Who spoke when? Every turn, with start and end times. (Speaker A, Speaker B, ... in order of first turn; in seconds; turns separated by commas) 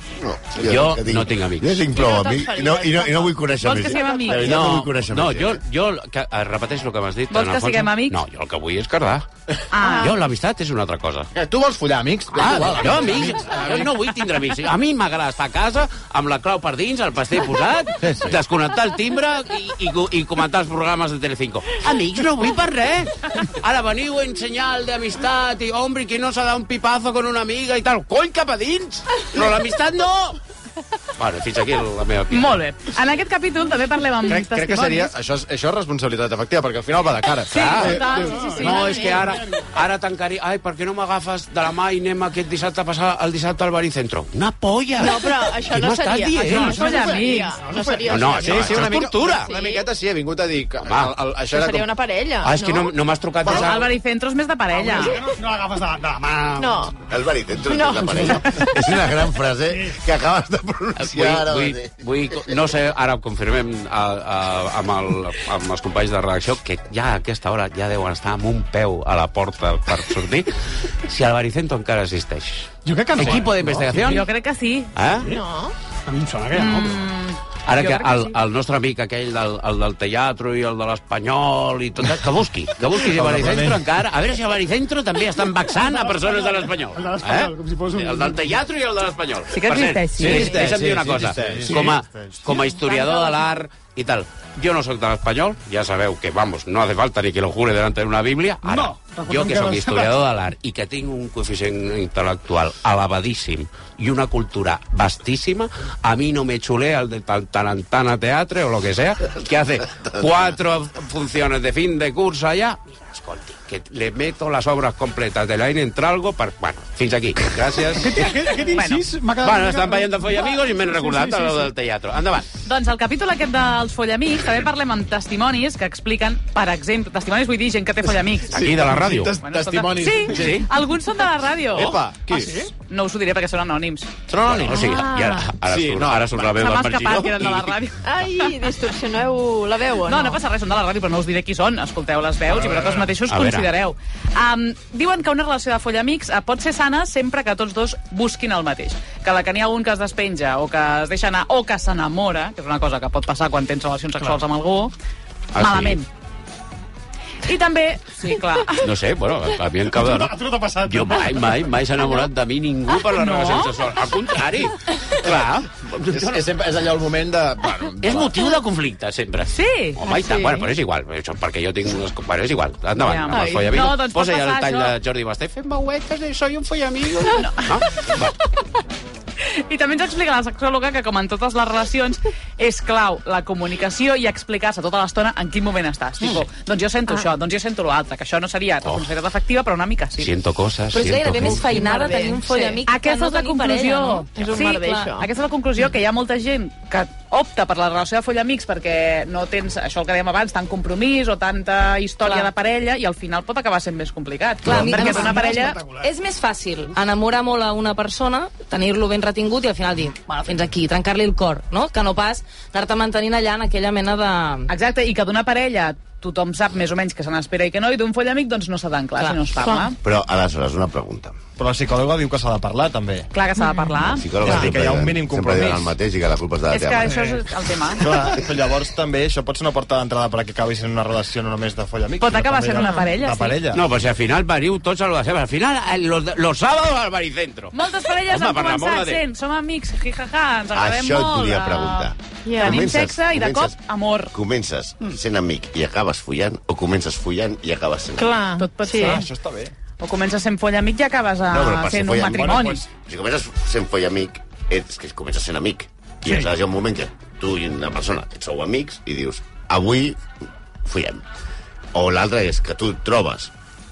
Speaker A: 0.2-5.6, Speaker B: 0.6-1.8, Speaker C: 1.9-4.3, Speaker D: 3.6-4.7, Speaker B: 4.4-9.3, Speaker D: 7.3-8.2, Speaker D: 9.7-10.1, Speaker C: 9.8-10.1, Speaker B: 9.9-11.3, Speaker E: 11.3-14.0, Speaker B: 12.3-30.4, Speaker E: 18.0-18.4, Speaker B: 31.2-32.6, Speaker D: 32.3-35.1, Speaker E: 34.3-38.0, Speaker D: 37.5-39.1, Speaker B: 37.5-46.8, Speaker F: 37.8-39.7, Speaker C: 45.0-49.9, Speaker D: 46.4-47.6, Speaker F: 46.5-48.8, Speaker B: 48.1-49.5, Speaker E: 48.4-51.9, Speaker B: 50.8-51.1, Speaker C: 51.5-52.9, Speaker B: 52.4-53.9, Speaker D: 53.4-55.2, Speaker F: 54.7-56.8, Speaker C: 56.6-57.0, Speaker A: 57.1-62.5, Speaker C: 57.7-58.5, Speaker F: 58.0-58.7, Speaker F: 59.7-60.0, Speaker B: 61.0-70.5, Speaker B: 71.0-74.3, Speaker F: 72.8-73.6, Speaker D: 74.0-74.9, Speaker B: 75.0-75.3, Speaker C: 75.3-75.7, Speaker F: 76.1-77.0, Speaker D: 76.5-78.4, Speaker B: 77.7-118.3, Speaker G: 83.1-83.8, Speaker F: 85.8-88.4, Speaker D: 89.5-90.7, Speaker E: 90.2-91.8, Speaker G: 91.2-92.5, Speaker F: 91.7-91.9, Speaker F: 98.6-100.2, Speaker F: 118.0-121.7, Speaker D: 118.7-119.0, Speaker B: 119.4-122.5, Speaker D: 122.7-128.7, Speaker B: 128.5-129.3, Speaker E: 128.5-130.7, Speaker D: 129.4-132.0, Speaker B: 130.2-130.7, Speaker E: 131.7-132.6, Speaker F: 132.3-132.7, Speaker D: 132.7-134.1, Speaker B: 134.3-137.7, Speaker E: 134.3-134.8, Speaker C: 134.7-135.4, Speaker E: 135.6-136.6, Speaker D: 136.6-138.0, Speaker C: 138.1-140.4, Speaker D: 140.0-154.9, Speaker B: 143.3-143.7, Speaker B: 155.5-156.0, Speaker D: 155.6-156.1, Speaker D: 157.5-158.9, Speaker B: 158.8-166.4, Speaker F: 159.9-161.6, Speaker D: 163.1-163.8, Speaker E: 166.1-168.4, Speaker B: 168.0-178.3, Speaker D: 169.5-170.0, Speaker C: 170.1-170.7, Speaker D: 173.0-175.0, Speaker C: 173.3-173.9, Speaker D: 177.4-177.7, Speaker D: 179.6-190.3, Speaker B: 188.8-189.1, Speaker B: 190.2-191.7, Speaker H: 190.9-195.1, Speaker C: 191.4-192.8, Speaker D: 192.8-205.8, Speaker C: 194.4-195.3, Speaker H: 202.2-202.5, Speaker H: 204.7-214.7, Speaker F: 204.7-206.1, Speaker D: 214.7-220.0, Speaker H: 219.2-219.5, Speaker A: 220.0-221.4, Speaker G: 221.6-223.3, Speaker D: 223.3-224.4, Speaker A: 224.0-227.2, Speaker G: 224.4-225.9, Speaker D: 226.7-228.3, Speaker F: 227.1-227.4, Speaker G: 228.0-233.8, Speaker D: 232.2-233.6, Speaker B: 233.7-239.2, Speaker D: 237.7-244.3, Speaker A: 240.7-243.8, Speaker C: 242.5-242.9, Speaker A: 244.3-248.4, Speaker C: 248.2-249.2, Speaker D: 248.6-249.3, Speaker G: 248.9-249.7, Speaker D: 250.0-252.9, Speaker A: 251.5-260.2, Speaker G: 252.3-252.8, Speaker A: 260.8-261.2, Speaker A: 261.9-263.5